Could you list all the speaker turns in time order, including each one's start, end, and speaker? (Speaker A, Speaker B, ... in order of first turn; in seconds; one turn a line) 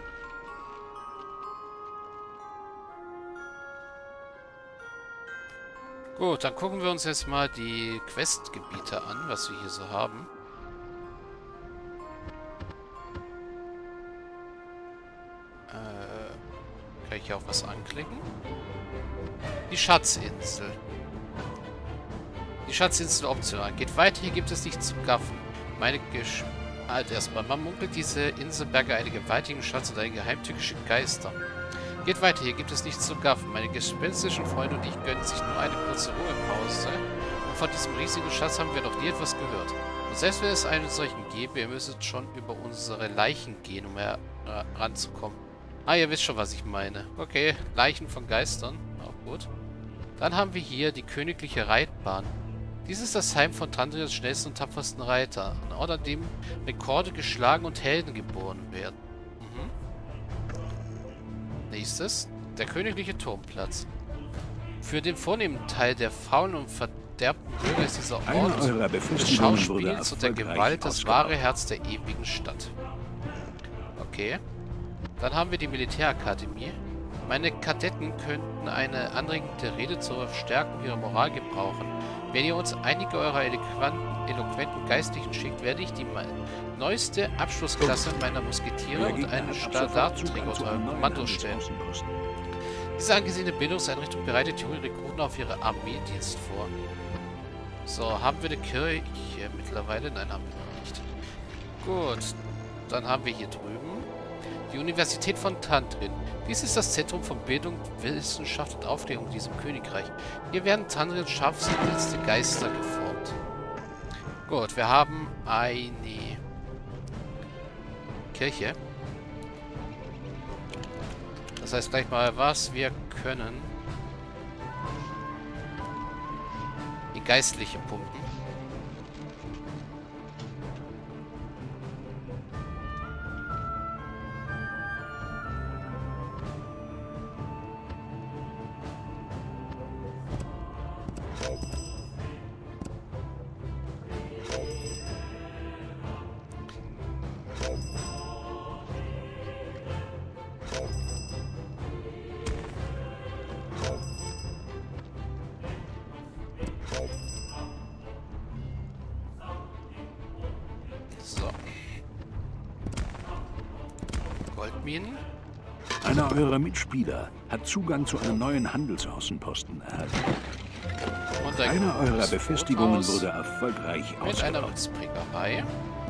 Speaker A: 6.2-10.3
Speaker A: 15.7-16.4
Speaker A: 17.0-18.3
Speaker A: 19.7-20.8
Speaker A: 22.7-31.3
Speaker A: 32.0-49.5
Speaker A: 50.2-59.7
Speaker A: 61.7-63.9
Speaker A: 64.8-72.7
Speaker B: 68.2-71.4
Speaker A: 74.0-74.4
Speaker A: 75.2-91.6
Speaker B: 88.9-92.1
Speaker A: 93.0-96.7
Speaker A: 97.9-101.1
Speaker A: 101.8-102.4
Speaker A: 102.9-104.1
Speaker A: 104.7-113.4
Speaker A: 114.5-116.4
Speaker A: 118.3-118.8
Speaker A: 121.6-123.7
Speaker A: 127.1-128.3
Speaker A: 161.1-161.9
Speaker A: 164.5-165.2
Speaker B: 166.0-170.3
Speaker A: 171.4-173.3
Speaker B: 171.6-174.8
Speaker A: 174.2-175.7